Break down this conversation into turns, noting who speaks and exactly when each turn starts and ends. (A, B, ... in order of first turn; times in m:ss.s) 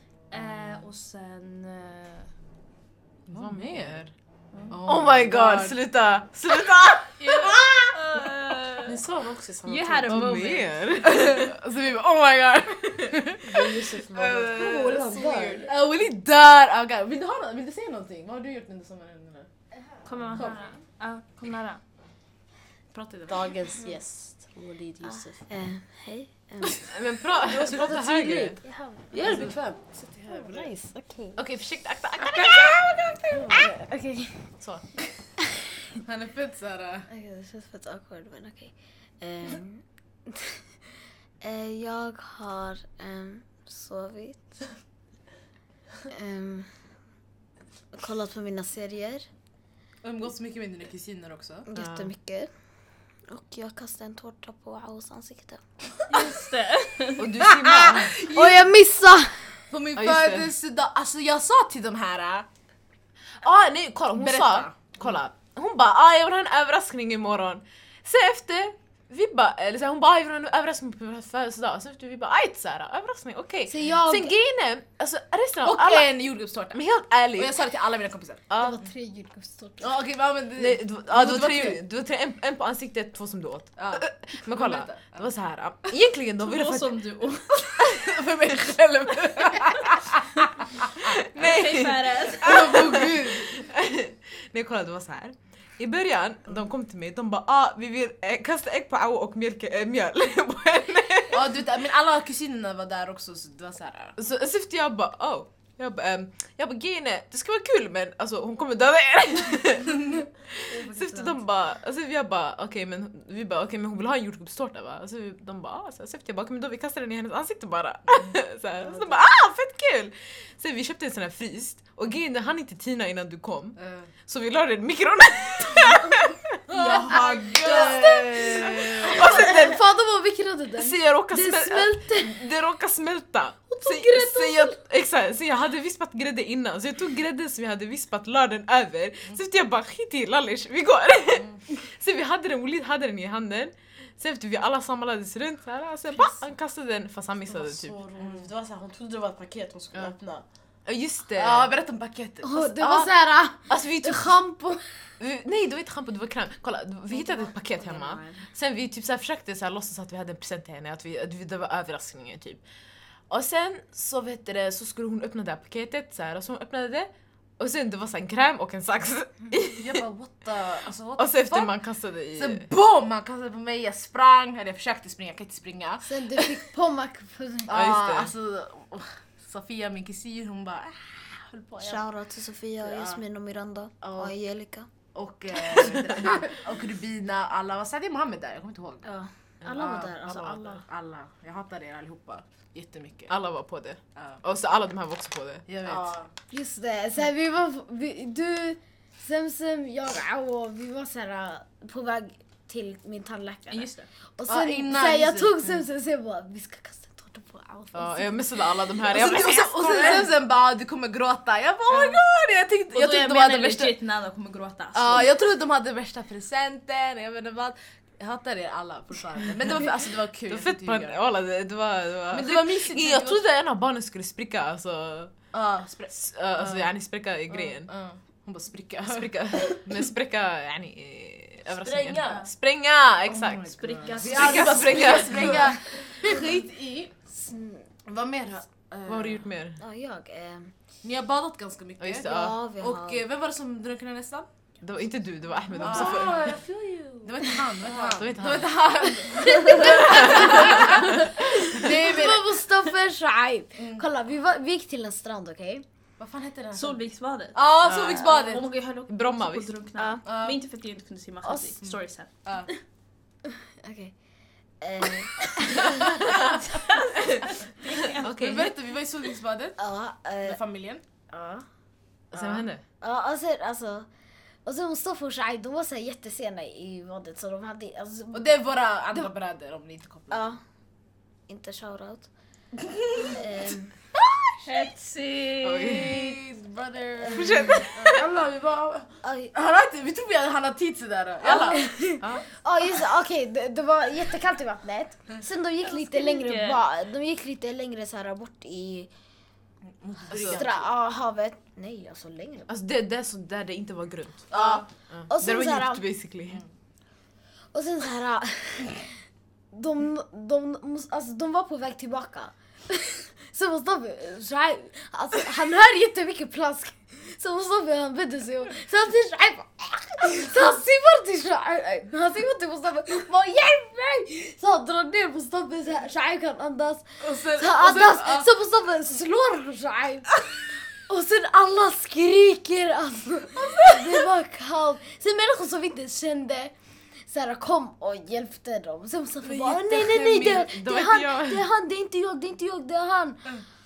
0:00.3-0:02.3 A
0:03.3-0:04.0 B
0:03.3-0:04.1 C
0:04.5-0:04.8 A
0:04.7-0:05.8 B
0:04.8-0:07.9 C
0:07.9-0:09.0 A
0:08.9-0:10.3 D
0:09.6-0:10.8 A
0:10.1-0:11.5 C
0:11.0-0:13.6 B
0:12.9-0:15.7 C
0:13.4-0:15.7 D
0:15.6-0:19.5 B
0:20.0-0:21.8 A
0:22.9-0:23.5 C
0:23.3-0:25.5 D
0:25.0-0:26.9 E
0:26.9-0:28.6 C
0:27.4-0:29.8 D
0:28.6-0:29.4 E
0:29.2-0:30.7 C
0:30.3-0:31.4 E
0:31.4-0:33.6 C
0:32.3-0:32.8 B
0:33.3-0:33.7 B
0:33.4-0:34.5 E
0:34.6-0:35.0 C
0:36.0-0:37.1 B
0:37.1-0:40.6 E
0:41.4-0:44.8 E
0:46.1-0:46.8 E
0:47.9-0:49.3 E
0:50.0-0:51.6 B
0:51.7-0:52.5 E
0:51.7-0:52.1 C
0:53.3-0:56.2 E
0:56.1-0:57.2 A
0:57.2-0:58.2 C
0:57.7-0:59.7 E
0:57.9-0:58.7 B
0:59.7-1:02.5 B
1:00.0-1:00.5 C
1:03.4-1:17.6 C
1:04.1-1:04.9 B
1:13.7-1:14.3 E
1:15.6-1:16.8 B
1:17.3-1:18.5 B
1:18.5-1:18.8 C
1:18.5-1:19.9 E
1:19.8-1:21.8 B
1:20.6-1:27.0 C
1:23.8-1:25.3 B
1:26.4-1:27.8 A
1:27.9-1:30.2 B
1:28.0-1:30.1 C
1:31.0-1:41.4 C
1:31.4-1:32.7 A
1:32.4-1:33.5 B
1:41.3-1:44.1 B
1:44.2-2:09.9 C
1:50.9-1:51.4 E
2:03.8-2:04.1 B
2:06.7-2:12.4 E
2:06.9-2:09.5 B
2:10.8-2:28.0 C
2:13.7-2:14.8 E
2:27.5-2:30.4 D
2:28.2-2:28.5 B
2:30.8-2:31.8 C
2:31.4-2:33.1 B
2:32.4-2:34.3 E
2:32.5-2:42.6 C
2:37.1-2:38.3 E
2:43.3-2:50.0 C
2:49.7-2:51.7 B
2:51.2-2:52.6 C
2:52.4-2:56.5 B
2:56.0-2:57.7 E
2:57.7-3:02.1 B
2:57.7-2:58.3 C
3:01.8-3:04.9 E
3:02.8-3:03.2 B
3:04.0-3:04.3 B
3:05.1-3:09.0 B
3:09.0-3:10.8 E
3:09.6-3:10.8 C
3:10.8-3:13.3 B
3:13.3-3:15.6 C
3:15.7-3:16.1 B
3:15.8-3:16.3 D
3:16.5-3:30.2 E
3:23.7-3:24.0 A
3:24.4-3:25.5 B
3:27.9-3:30.2 C
3:29.1-3:34.0 B
3:31.9-3:32.2 A
3:32.9-3:35.3 A
3:34.9-3:41.2 B
3:40.5-3:45.3 C
3:42.3-3:43.4 B
3:45.5-3:46.9 B
3:46.1-3:47.9 C
3:47.5-3:49.5 B
3:49.0-3:55.8 C
3:51.8-3:52.5 D
3:53.3-3:57.2 B
3:53.6-3:55.6 A
3:57.3-3:57.9 E
3:58.0-3:59.4 B
3:59.0-3:59.8 C
3:59.8-4:00.7 E
4:01.0-4:04.5 B
4:02.0-4:02.6 C
4:02.2-4:03.2 E
4:04.8-4:06.5 C
4:05.7-4:08.4 D
4:05.8-4:06.4 B
4:07.2-4:12.5 B
4:08.0-4:09.0 C
4:09.4-4:09.7 A
4:09.4-4:15.8 E
4:09.6-4:11.9 C
4:13.7-4:14.1 B
4:16.2-4:17.0 B
4:16.7-4:22.8 A
4:17.5-4:18.6 B
4:17.8-4:18.4 C
4:19.1-4:19.8 C
4:20.2-4:20.6 B
4:21.5-4:21.9 B
4:23.8-4:24.2 E
4:24.8-4:26.2 E
4:27.3-4:28.3 A
4:28.2-4:28.7 C
4:28.2-4:29.8 B
4:29.8-4:30.6 E
4:30.4-4:31.0 B
4:31.3-4:31.6 E
4:32.3-4:32.7 B
4:32.3-4:32.8 C
4:33.0-4:34.1 E
4:34.6-4:38.5 E
4:38.3-4:40.6 B
4:40.3-4:40.6 E
4:41.5-4:42.3 E
4:43.2-4:44.1 E
4:44.6-4:46.0 A
4:45.6-4:46.4 C
4:45.9-4:47.7 B
4:47.3-4:48.2 C
4:48.0-4:49.2 D
4:49.2-4:49.5 E
4:49.5-4:51.9 B
4:51.5-4:59.1 E
4:52.2-4:52.4 C
4:55.8-4:56.8 A
5:00.0-5:00.9 B
5:00.3-5:02.7 E
5:00.3-5:00.6 C
5:02.7-5:04.5 C
5:04.5-5:04.8 B
5:04.5-5:06.0 E
5:05.1-5:06.6 C
5:07.7-5:09.2 E
5:09.7-5:36.7 E
5:27.3-5:28.5 B
5:37.2-5:43.6 E
5:39.5-5:40.5 B
5:39.5-5:41.7 C